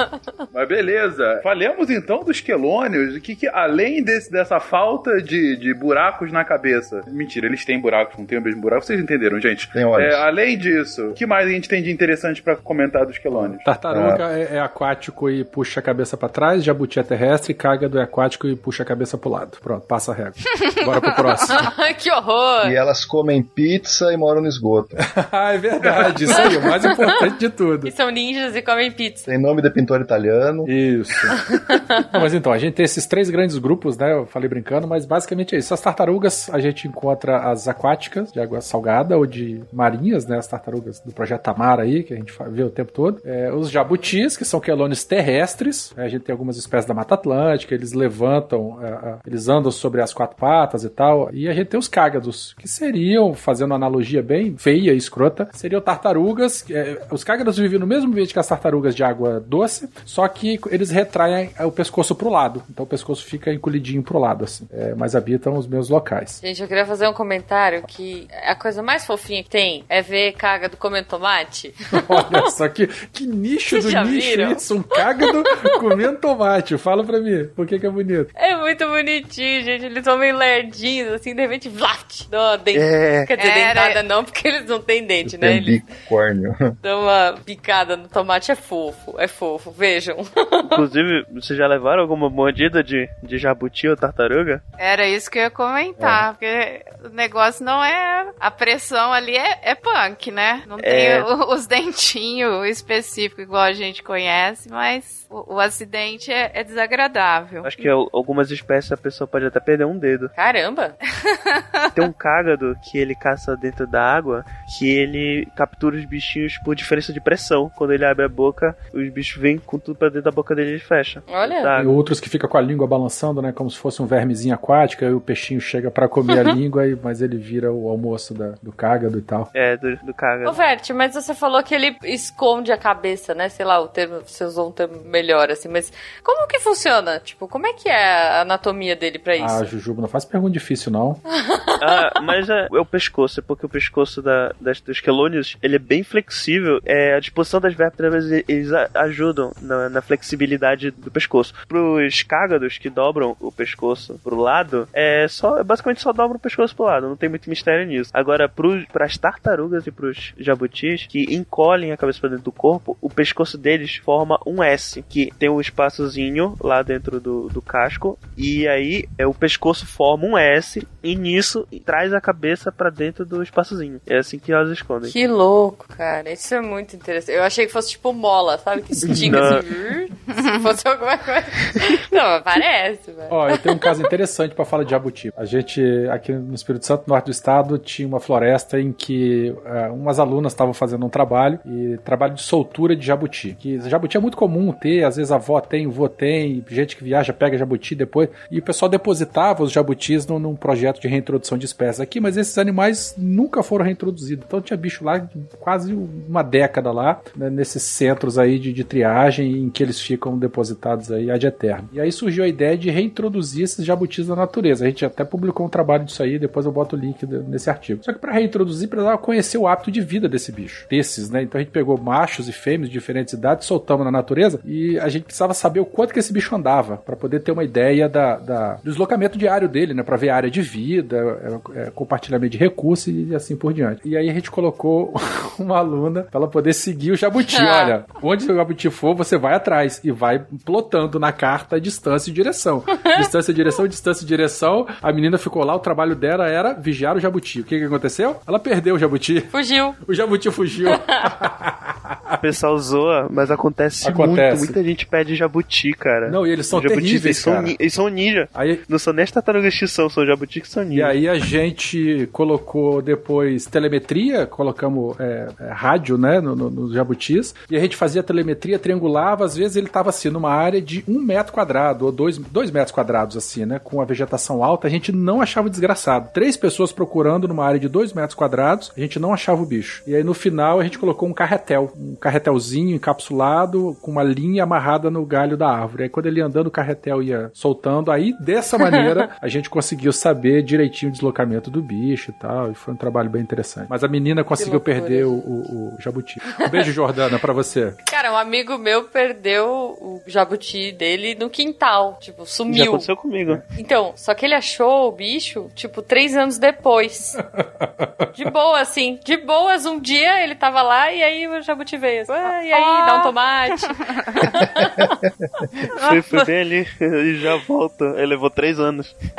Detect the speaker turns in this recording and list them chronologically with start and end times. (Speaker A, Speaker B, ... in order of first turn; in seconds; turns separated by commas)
Speaker A: 0.5-13.7, Speaker B: 9.7-10.2, Speaker C: 13.6-21.7, Speaker B: 13.9-14.2, Speaker D: 21.4-22.8, Speaker B: 22.6-25.0, Speaker C: 25.0-27.9, Speaker A: 25.9-26.1, Speaker D: 26.3-27.3, Speaker D: 27.9-29.3, Speaker B: 29.3-30.7, Speaker C: 30.7-31.4, Speaker D: 31.4-32.1, Speaker C: 32.1-66.4, Speaker D: 66.4-72.5, Speaker C: 71.9-78.3, Speaker D: 73.7-75.9, Speaker D: 78.4-85.8, Speaker E: 82.7-83.3, Speaker F: 83.4-84.0, Speaker B: 85.2-86.8, Speaker D: 86.8-90.7, Speaker E: 90.6-94.6, Speaker F: 94.8-107.9, Speaker E: 100.8-101.3, Speaker E: 107.6-110.3, Speaker D: 110.3-111.0, Speaker F: 111.2-111.8, Speaker E: 112.0-122.0, Speaker D: 121.3-121.8, Speaker C: 121.8-129.5, Speaker D: 126.3-126.5, Speaker E: 129.5-130.6, Speaker D: 130.4-139.6, Speaker C: 139.4-141.2, Speaker D: 141.3-141.8, Speaker E: 141.8-175.2, Speaker D: 175.0-184.1, Speaker E: 179.0-179.7, Speaker C: 183.3-252.4, Speaker D: 237.5-237.9, Speaker D: 243.0-243.3, Speaker D: 249.5-250.0, Speaker D: 250.9-251.3, Speaker E: 252.4-261.2, Speaker C: 254.0-254.8, Speaker C: 256.3-257.8, Speaker C: 258.5-258.8, Speaker C: 260.9-298.0, Speaker D: 294.6-295.4, Speaker D: 296.5-296.9, Speaker D: 298.1-303.1, Speaker E: 302.7-303.6, Speaker D: 303.7-307.4, Speaker C: 307.4-308.3, Speaker D: 308.4-315.1, Speaker F: 312.7-313.3, Speaker F: 314.2-314.5, Speaker E: 315.8-319.1